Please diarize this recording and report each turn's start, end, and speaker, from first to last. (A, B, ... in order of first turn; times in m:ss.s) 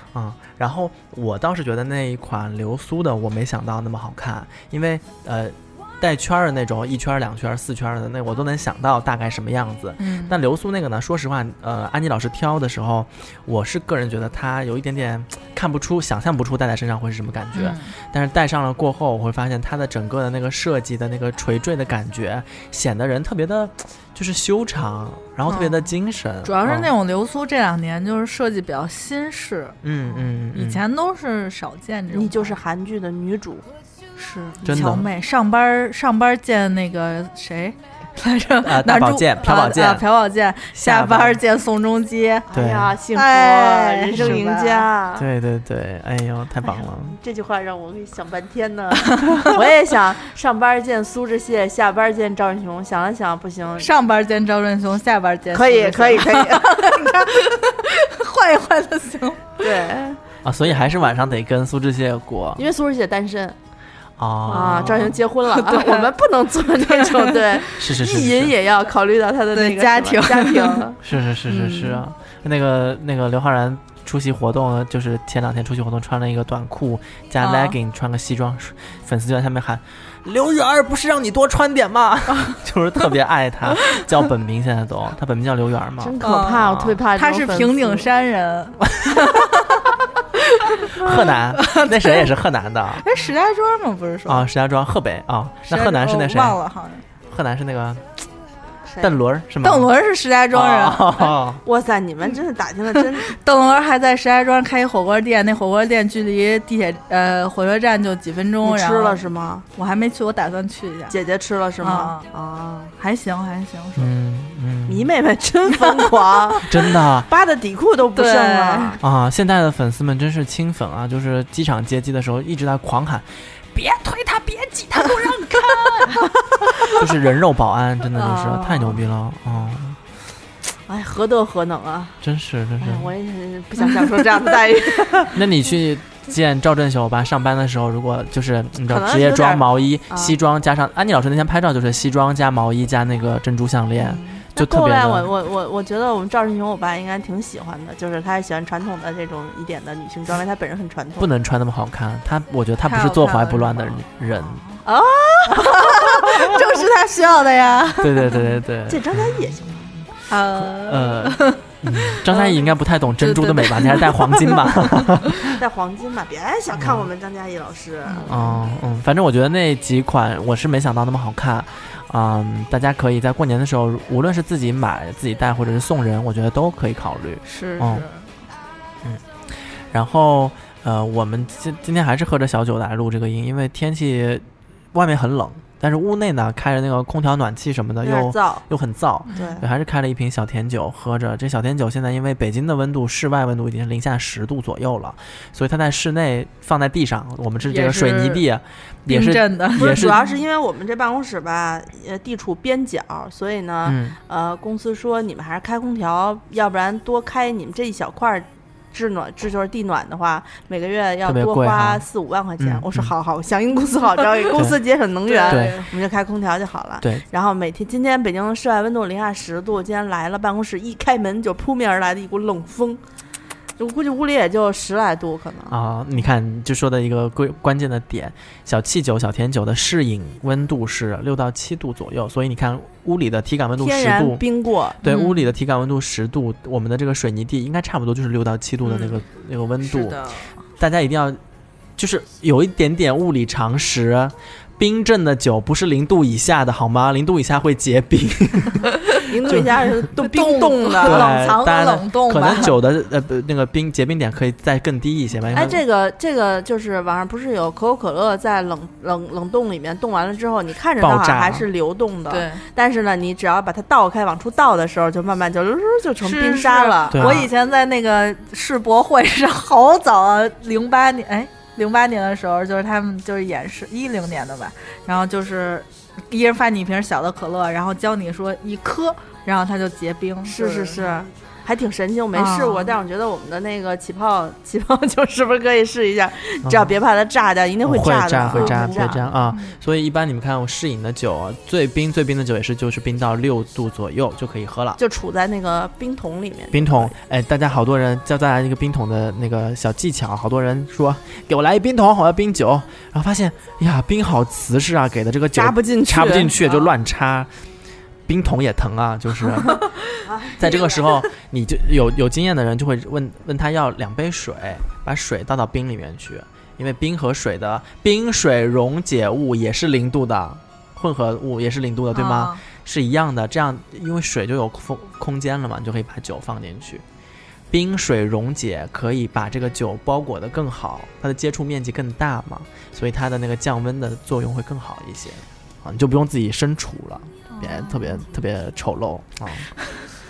0:00.1-0:26.9 A
0:10.0-0:10.3 B
0:17.5-0:17.9 B
0:25.5-0:25.9 B
0:26.4-0:32.6 B
0:29.8-0:30.8 A
0:32.1-0:33.6 C
0:34.2-0:42.5 B
0:34.6-0:35.1 A
0:38.6-0:40.0 A
0:40.7-0:41.4 A
0:42.5-0:45.3 C
0:42.5-0:42.9 A
0:43.1-0:44.8 B
0:45.2-0:47.2 A
0:46.6-0:53.9 C
0:49.1-0:49.5 B
0:53.8-0:59.6 B
0:55.5-0:57.0 C
0:59.6-1:00.9 C
1:00.4-1:02.6 A
1:02.6-1:03.6 C
1:04.2-1:05.1 A
1:04.5-1:06.1 B
1:04.5-1:11.0 C
1:06.9-1:07.6 B
1:07.8-1:08.5 A
1:09.5-1:10.9 B
1:11.0-1:26.9 A
1:11.5-1:12.0 B
1:17.4-1:17.8 B
1:26.0-1:28.1 C
1:26.2-1:29.8 B
1:29.0-1:29.3 A
1:30.4-1:31.0 B
1:30.9-1:33.0 A
1:31.6-1:32.3 B
1:33.0-1:34.5 B
1:34.3-1:36.6 A
1:35.7-1:37.0 B
1:37.3-1:38.2 A
1:38.9-1:39.1 C
1:39.0-1:39.9 A
1:39.6-1:41.3 B
1:40.5-1:41.6 A
1:41.6-1:43.3 C
1:43.3-1:49.2 B
1:48.6-1:49.6 C
1:49.8-1:51.1 B
1:51.1-1:52.9 C
1:51.8-1:52.2 B
1:53.0-1:54.1 B
1:54.0-1:55.1 A
1:54.9-1:59.0 C
1:56.7-1:57.3 A
1:58.1-1:59.0 B
1:59.0-2:06.2 A
2:06.9-2:10.0 A
2:08.2-2:09.0 B
2:10.9-2:12.2 C
2:12.2-2:13.1 A
2:12.8-2:15.4 C
2:15.3-2:25.3 A
2:18.9-2:20.3 C
2:24.0-2:24.4 B
2:24.5-2:31.3 C
2:31.2-2:34.6 A
2:32.8-2:34.8 B
2:34.8-2:36.6 C
2:35.5-2:38.4 B
2:38.0-2:39.4 A
2:38.9-2:40.0 C
2:40.3-2:42.6 B
2:40.7-2:45.5 A
2:43.2-2:44.6 B
2:45.4-2:48.5 C
2:46.7-2:47.0 A
2:48.0-2:48.6 B
2:48.3-2:58.0 A
2:57.5-2:58.3 B
2:59.9-3:20.2 A
3:08.0-3:08.6 C
3:09.3-3:09.6 C
3:17.7-3:18.4 B
3:19.1-3:20.2 B
3:19.8-3:43.0 C
3:23.8-3:24.2 A
3:31.2-3:32.0 A
3:32.6-3:33.1 A
3:35.2-3:35.9 B
3:35.5-3:35.8 A
3:43.8-3:45.8 C
3:45.7-3:54.4 A
3:53.8-3:55.0 C
3:55.0-4:01.4 A
3:55.0-3:55.5 B
3:59.8-4:00.5 B
4:02.0-4:10.1 A
4:09.2-4:11.4 C
4:10.2-4:12.7 B
4:11.0-4:15.8 A
4:15.5-4:27.4 C
4:21.0-4:21.7 A
4:22.3-4:22.6 B
4:26.2-4:41.2 B
4:27.1-4:27.5 A
4:40.5-4:49.3 C
4:42.3-4:42.9 B
4:47.8-4:55.0 A
4:48.5-4:49.8 B
4:55.0-4:57.1 C
4:56.7-5:07.5 A
5:05.5-5:06.9 C
5:08.3-5:09.9 A
5:10.2-5:11.2 C
5:10.6-5:27.0 A
5:22.1-5:22.6 B
5:27.7-5:39.7 A
5:37.5-5:38.2 B